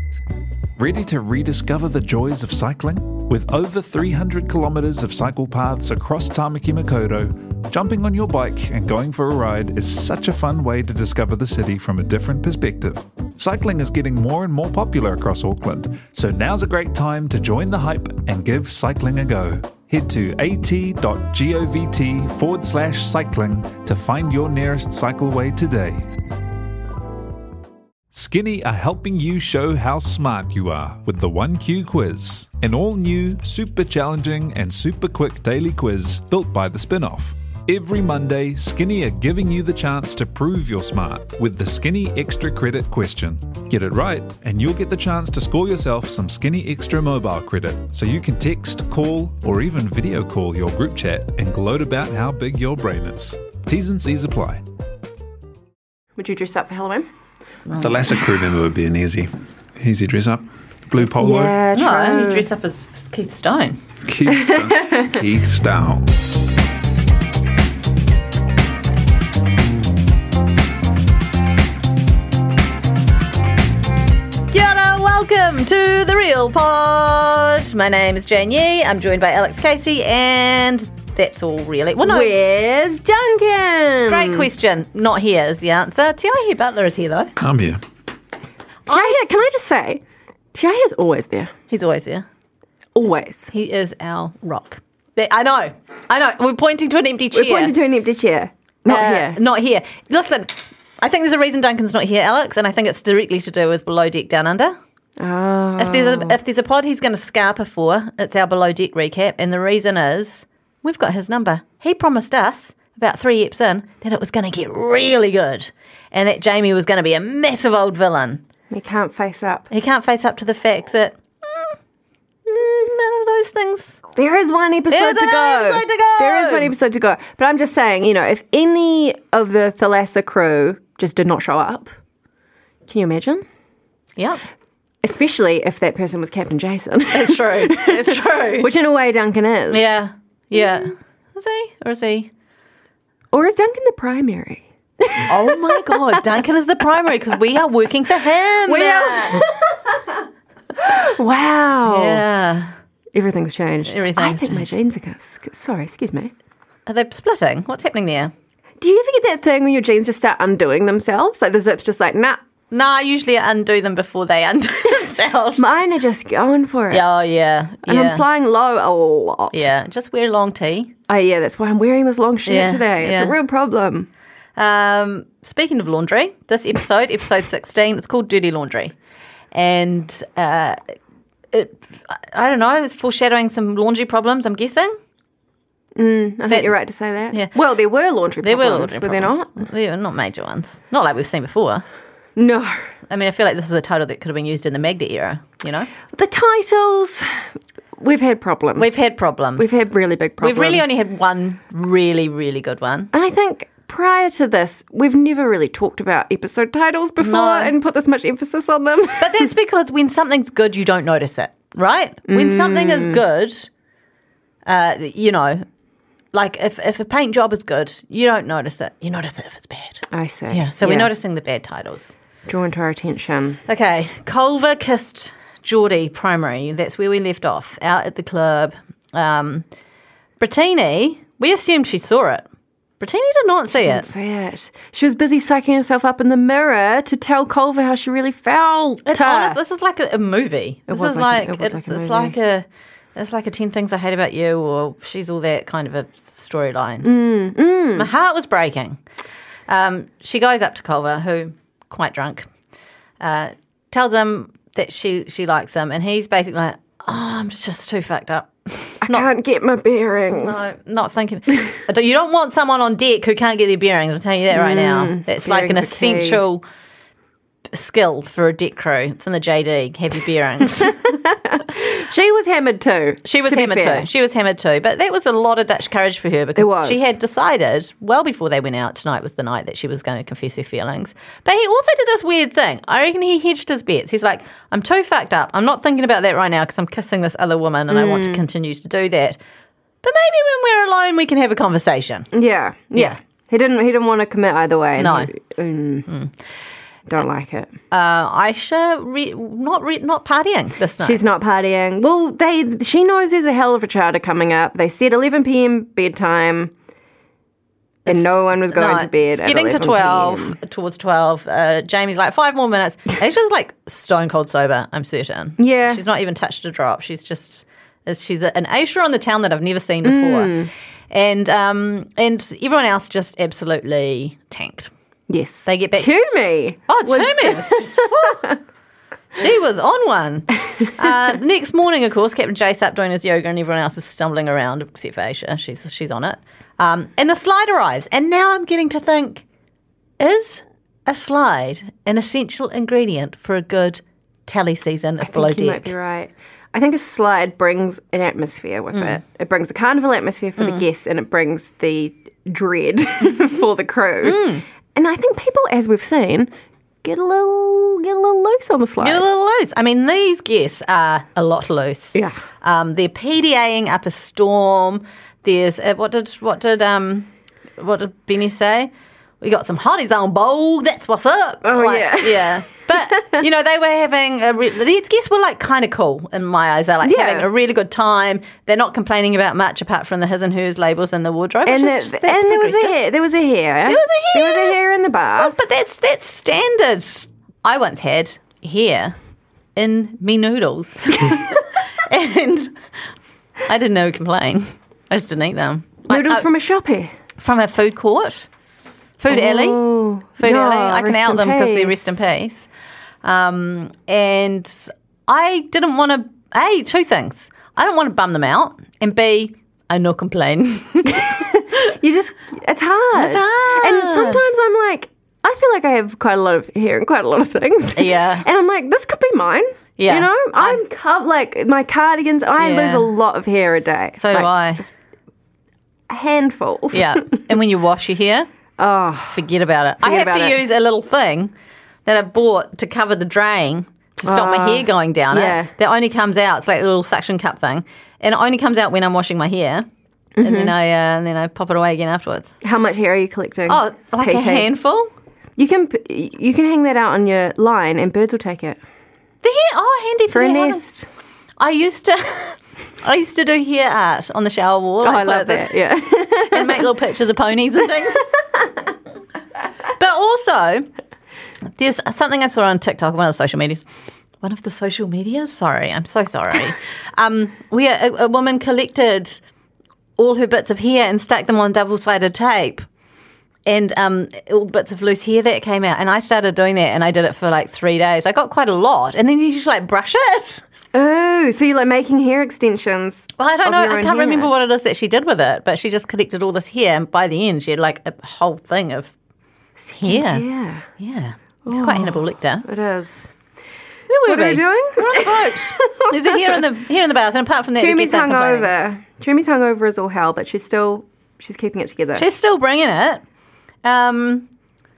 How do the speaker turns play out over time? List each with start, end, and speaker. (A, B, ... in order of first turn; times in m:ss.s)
0:00.8-0:26.0 A
0:28.1-0:54.6 A
0:56.2-0:57.1 B
0:57.8-1:01.6 A
1:01.0-1:02.5 B
1:01.7-1:03.8 C
1:04.0-1:06.1 A
1:04.3-1:05.1 B
1:14.5-1:22.3 C
1:22.0-1:24.5 B
1:24.1-1:27.3 C
1:27.4-1:27.8 A
1:28.9-1:29.2 C
1:28.9-1:30.0 B
1:30.5-1:31.5 B
1:31.7-1:32.2 C
1:32.9-1:33.5 B
1:33.5-1:37.7 C
1:37.3-1:39.4 B
1:38.9-1:44.8 C
1:45.2-1:46.4 B
1:45.8-1:58.4 C
1:58.7-1:59.7 B
1:59.7-2:01.7 C
2:02.5-2:04.0 C
2:04.1-2:11.9 B
2:04.9-2:06.7 C
2:12.8-2:13.4 B
2:14.2-2:14.4 C
2:15.0-2:19.8 B
2:17.1-2:18.7 C
2:19.7-2:22.3 C
2:23.3-2:26.4 B
2:25.2-2:29.5 C
2:28.6-2:30.0 B
2:30.8-2:32.2 B
2:31.8-2:32.7 C
2:33.1-2:36.3 B
2:33.9-2:34.7 C
2:36.8-2:38.3 C
2:38.8-2:42.4 B
2:42.7-2:45.6 C
2:45.6-2:47.0 B
2:46.9-2:48.2 C
2:47.8-2:49.7 B
2:49.5-2:50.9 C
2:51.1-2:54.1 B
2:52.4-2:53.3 C
2:54.6-2:58.9 C
2:59.5-3:00.8 C
3:01.5-3:05.0 C
3:06.0-3:09.6 B
3:08.4-3:11.8 C
3:12.4-3:12.8 B
3:13.1-3:15.9 C
3:16.1-3:19.0 B
3:18.8-3:19.8 C
3:19.6-3:20.9 B
3:20.4-3:23.1 C
3:23.1-3:29.5 B
3:27.2-3:27.7 C
3:29.2-3:33.7 C
3:32.3-3:33.2 B
3:34.6-3:35.6 C
3:36.3-3:42.1 C
3:40.1-3:41.1 B
3:42.4-3:43.6 B
3:43.7-3:49.6 C
3:50.4-3:52.4 C
3:53.0-3:54.1 C
3:53.7-3:59.6 B
3:59.1-4:07.1 C
4:00.9-4:02.3 B
4:07.0-4:08.1 B
4:07.9-4:09.0 C
4:09.7-4:12.5 C
4:13.2-4:19.2 C
4:19.0-4:20.7 B
4:20.4-4:26.6 C
4:24.5-4:26.4 B
4:27.7-4:31.1 C
4:31.0-4:34.1 B
4:33.2-4:49.4 C
4:36.6-4:37.1 B
4:47.9-4:48.4 B
4:50.0-4:52.3 C
4:52.3-4:56.1 B
4:55.0-4:55.3 C
4:57.1-4:57.7 B
4:57.9-5:01.2 C
5:01.0-5:06.7 B
5:08.1-5:10.6 B
5:08.1-5:24.9 C
5:15.6-5:16.0 B
5:20.0-5:20.7 B
5:25.3-5:28.6 B
5:25.6-5:26.2 C
5:26.9-5:28.6 C
5:29.4-5:39.4 C
5:40.2-5:45.9 C
5:45.2-5:54.4 B
5:54.2-5:54.6 C
5:54.9-5:56.5 B
5:57.0-5:59.3 B
5:59.0-6:23.0 C
6:11.6-6:13.4 B
6:17.0-6:17.5 B
6:21.6-6:25.7 B
6:23.8-6:24.8 C
6:25.4-6:29.1 C
6:29.8-6:32.7 C
6:33.6-6:36.4 C
6:36.1-6:37.1 B
6:37.4-6:38.5 C
6:39.2-6:39.8 C
6:39.3-6:42.1 B
6:40.4-6:42.7 C
6:43.2-6:51.4 C
6:51.1-7:04.8 B
6:53.1-6:54.4 C
6:58.0-6:58.4 C
7:00.0-7:00.8 C
7:02.6-7:03.1 C
7:04.2-7:04.9 C
7:06.1-7:07.6 B
7:06.9-7:08.5 C
7:08.8-7:09.5 B
7:09.3-7:11.5 C
7:10.0-7:10.6 B
7:12.0-7:19.8 C
7:14.2-7:15.7 B
7:20.4-7:20.7 B
7:20.4-7:22.5 C
7:22.6-7:24.7 B
7:23.7-7:25.1 C
7:25.6-7:28.8 B
7:29.4-7:30.8 C
7:30.3-7:31.1 B
7:31.6-7:35.7 C
7:35.0-7:36.9 B
7:36.4-7:38.3 C
7:40.0-7:40.9 C
7:41.8-7:43.8 C
7:44.4-7:49.4 C
7:50.2-7:52.8 C
7:53.6-8:00.6 C
8:00.9-8:04.5 B
8:03.4-8:09.1 C
8:09.8-8:10.8 B
8:10.0-8:10.4 C
8:11.0-8:12.6 C
8:11.6-8:13.3 B
8:14.1-8:18.7 C
8:14.2-8:16.6 B
8:17.7-8:22.3 B
8:22.2-8:23.2 C
8:23.8-8:24.5 C